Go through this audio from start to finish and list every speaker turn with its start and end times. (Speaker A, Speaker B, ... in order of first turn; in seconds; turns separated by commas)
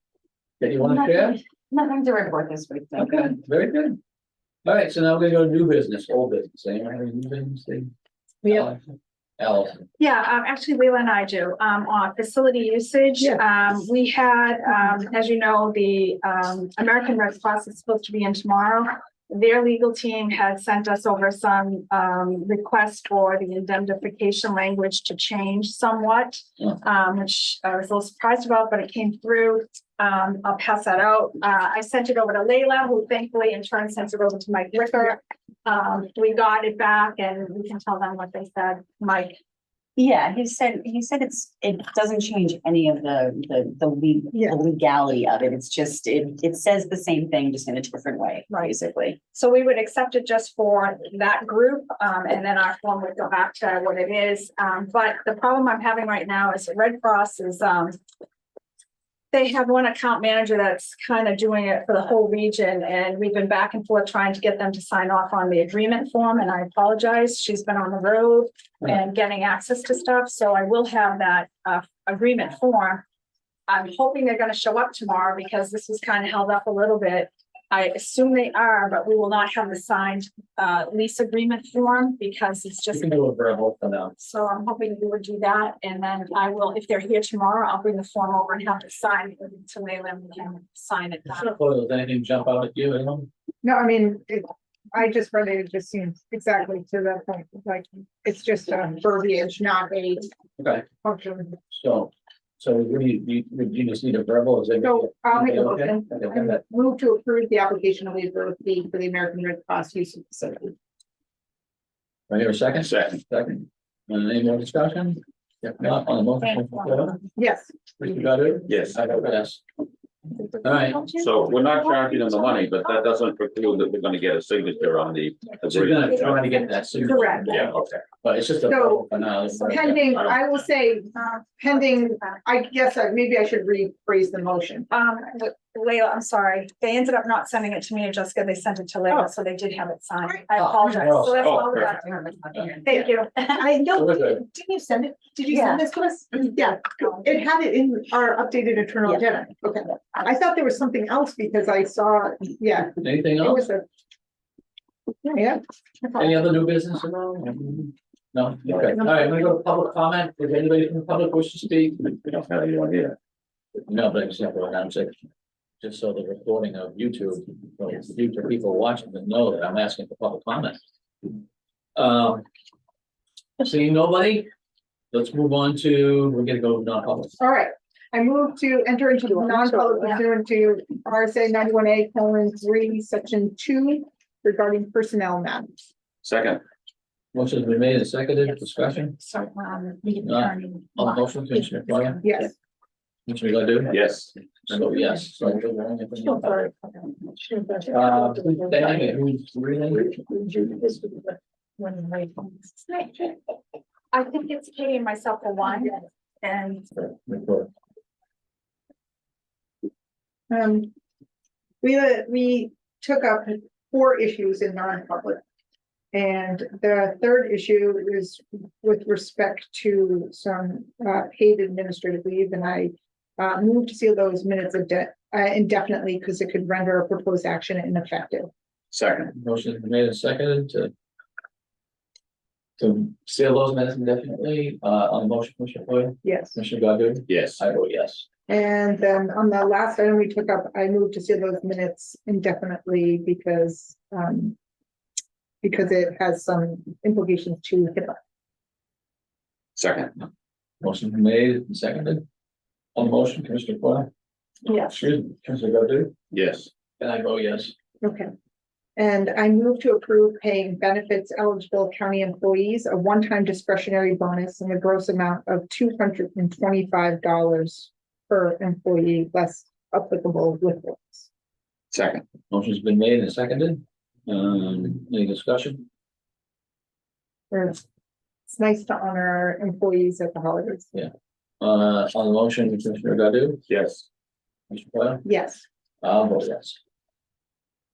Speaker A: 0.6-1.4, Speaker B: 0.8-3.3, Speaker A: 2.9-4.0, Speaker A: 4.6-7.9, Speaker A: 8.4-8.8, Speaker A: 9.4-9.9, Speaker C: 10.0-39.4, Speaker B: 40.0-49.2, Speaker C: 49.3-58.0, Speaker C: 59.3-73.0, Speaker C: 73.7-83.2, Speaker A: 82.9-84.1, Speaker C: 84.2-91.5, Speaker A: 91.3-93.3, Speaker D: 93.6-100.3, Speaker A: 100.6-100.8, Speaker D: 101.0-101.6, Speaker A: 101.7-106.6, Speaker D: 104.8-110.7, Speaker A: 112.3-117.2, Speaker E: 112.8-113.2, Speaker C: 116.4-117.1, Speaker D: 117.4-117.7, Speaker A: 118.0-119.6, Speaker E: 118.7-119.0, Speaker A: 120.6-121.1, Speaker E: 121.2-126.4, Speaker A: 125.7-130.0, Speaker D: 127.0-127.6, Speaker E: 127.5-127.8, Speaker D: 128.6-134.9, Speaker C: 134.9-143.6, Speaker A: 140.5-141.5, Speaker E: 141.4-141.9, Speaker B: 141.9-142.8, Speaker D: 142.8-153.8, Speaker A: 143.9-144.4, Speaker B: 145.5-145.8, Speaker A: 153.0-153.7, Speaker D: 155.2-156.2, Speaker A: 156.1-162.1, Speaker E: 162.2-163.2, Speaker A: 163.8-165.2, Speaker A: 165.8-170.8, Speaker A: 171.9-172.4, Speaker A: 173.6-174.5, Speaker A: 175.1-177.4, Speaker D: 177.4-185.8, Speaker E: 186.2-186.6, Speaker A: 187.3-189.2, Speaker C: 189.3-190.4, Speaker D: 190.0-190.5, Speaker A: 190.2-192.5, Speaker D: 192.2-192.5, Speaker A: 193.3-194.0, Speaker E: 193.9-194.3, Speaker A: 194.6-196.7, Speaker D: 196.8-198.9, Speaker A: 197.9-200.2, Speaker D: 200.2-203.3, Speaker C: 204.1-206.9, Speaker A: 207.0-207.7, Speaker D: 210.5-210.9, Speaker D: 211.8-215.4, Speaker D: 216.1-228.5, Speaker E: 228.9-229.3, Speaker A: 229.3-230.9, Speaker A: 232.8-238.2, Speaker D: 236.2-236.6, Speaker E: 237.3-237.6, Speaker D: 238.5-244.5, Speaker D: 245.6-248.2, Speaker E: 249.8-250.1, Speaker A: 250.8-252.2, Speaker A: 252.9-254.1, Speaker A: 254.8-256.1, Speaker E: 256.3-256.7, Speaker A: 257.0-257.7, Speaker D: 258.0-258.3, Speaker D: 259.0-271.3, Speaker E: 271.9-272.2, Speaker A: 272.5-275.9, Speaker D: 277.5-277.8, Speaker D: 278.5-280.9, Speaker A: 280.9-283.6, Speaker E: 283.7-284.0, Speaker A: 284.7-285.2, Speaker D: 285.2-285.6, Speaker A: 286.0-286.8